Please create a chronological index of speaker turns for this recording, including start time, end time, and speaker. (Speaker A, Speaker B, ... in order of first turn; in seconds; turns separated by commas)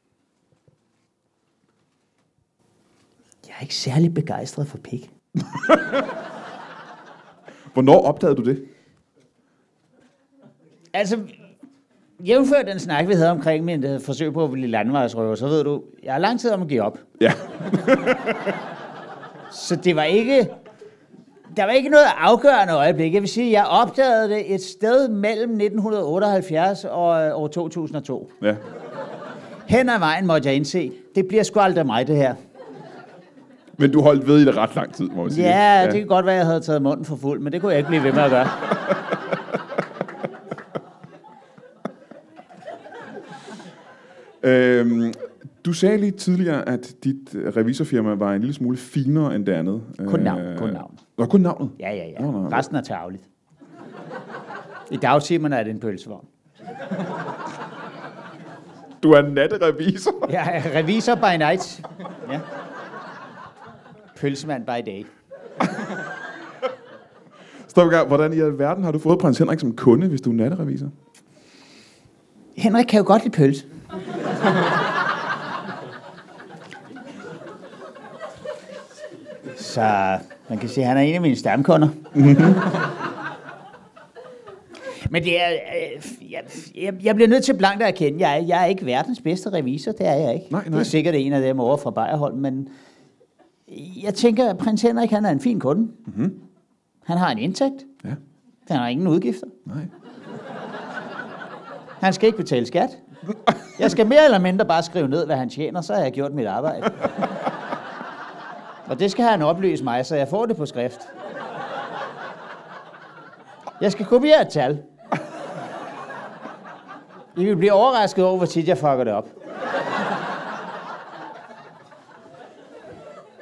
Speaker A: 3.4-5.1, Speaker B: 7.7-8.7, Speaker A: 10.9-11.3, Speaker A: 12.2-17.0, Speaker B: 17.2-18.6, Speaker A: 19.5-20.5, Speaker A: 21.5-28.3, Speaker A: 29.7-32.4, Speaker B: 33.8-36.0, Speaker A: 35.3-38.6, Speaker B: 44.4-52.6, Speaker A: 50.0-51.0, Speaker A: 51.8-53.2, Speaker A: 54.9-56.3, Speaker B: 59.0-60.3, Speaker A: 60.3-62.4, Speaker A: 64.1-65.1, Speaker B: 67.7-70.9, Speaker A: 72.5-73.6, Speaker A: 79.5-82.0, Speaker B: 82.1-82.6, Speaker A: 85.0-92.7, Speaker B: 90.5-90.9, Speaker A: 93.7-96.0, Speaker B: 96.1-96.4, Speaker A: 97.0-97.9, Speaker A: 98.7-99.5, Speaker A: 102.0-103.0, Speaker A: 103.8-107.1, Speaker A: 108.8-111.1, Speaker A: 113.8-114.8, Speaker A: 117.3-119.3